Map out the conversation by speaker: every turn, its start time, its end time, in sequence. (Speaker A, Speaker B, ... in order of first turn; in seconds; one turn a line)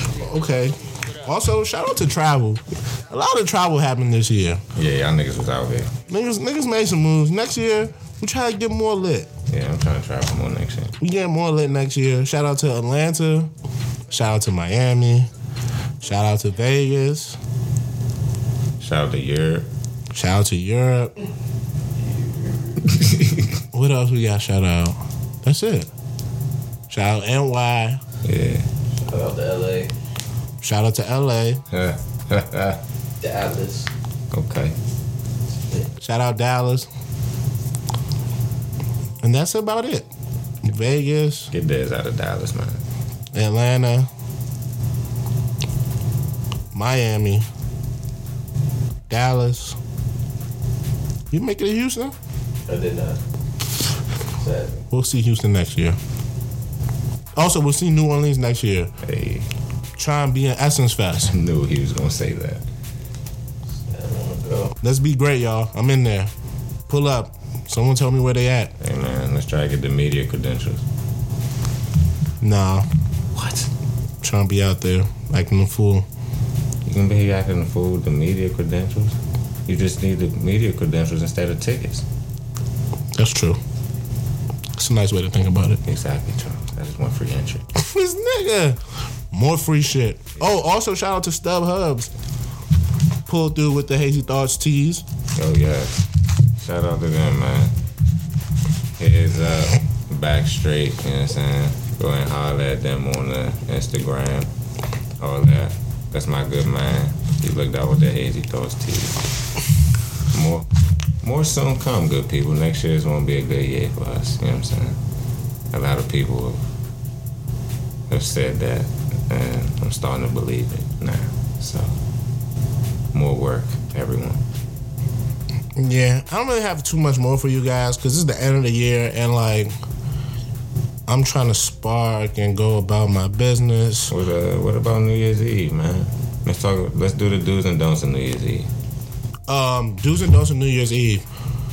Speaker A: 0.2-4.6
Speaker B: 4.7-5.9
Speaker A: 6.1-9.3
Speaker B: 9.5-10.9
Speaker A: 11.0-13.5
Speaker A: 14.1-15.3
Speaker A: 16.0-17.4
Speaker B: 18.8-19.7
Speaker A: 20.1-21.1
Speaker C: 21.9-23.0
Speaker B: 22.9-23.5
Speaker A: 23.7-25.9
Speaker A: 26.9-28.0
Speaker B: 28.2-28.6
Speaker C: 28.9-29.9
Speaker A: 30.6-31.6
Speaker B: 31.7-32.8
Speaker C: 33.2-33.9
Speaker B: 34.3-34.8
Speaker A: 36.0-36.9
Speaker A: 39.2-40.1
Speaker A: 40.6-41.5
Speaker B: 41.5-42.8
Speaker A: 43.3-44.1
Speaker A: 46.7-47.5
Speaker A: 49.1-49.8
Speaker A: 51.3-52.1
Speaker C: 52.7-53.2
Speaker C: 54.4-54.8
Speaker A: 54.9-56.0
Speaker A: 57.4-58.9
Speaker B: 59.0-59.5
Speaker A: 60.0-61.3
Speaker B: 61.2-62.6
Speaker C: 63.8-64.8
Speaker A: 64.8-66.3
Speaker A: 66.9-68.7
Speaker B: 68.8-70.8
Speaker A: 72.4-72.9
Speaker B: 73.3-73.7
Speaker A: 74.2-76.0
Speaker B: 76.8-82.0
Speaker A: 83.1-83.6
Speaker A: 84.8-85.8
Speaker B: 85.8-87.7
Speaker A: 87.7-88.8
Speaker A: 89.3-92.1
Speaker A: 93.2-95.0
Speaker B: 95.3-96.0
Speaker B: 96.6-97.7
Speaker B: 99.0-104.5
Speaker B: 105.2-109.2
Speaker B: 110.3-110.7
Speaker B: 111.2-115.0
Speaker B: 115.7-116.6
Speaker B: 118.1-121.9
Speaker B: 123.1-124.4
Speaker A: 125.8-129.7
Speaker A: 131.1-134.1
Speaker B: 134.1-138.7
Speaker A: 139.5-141.2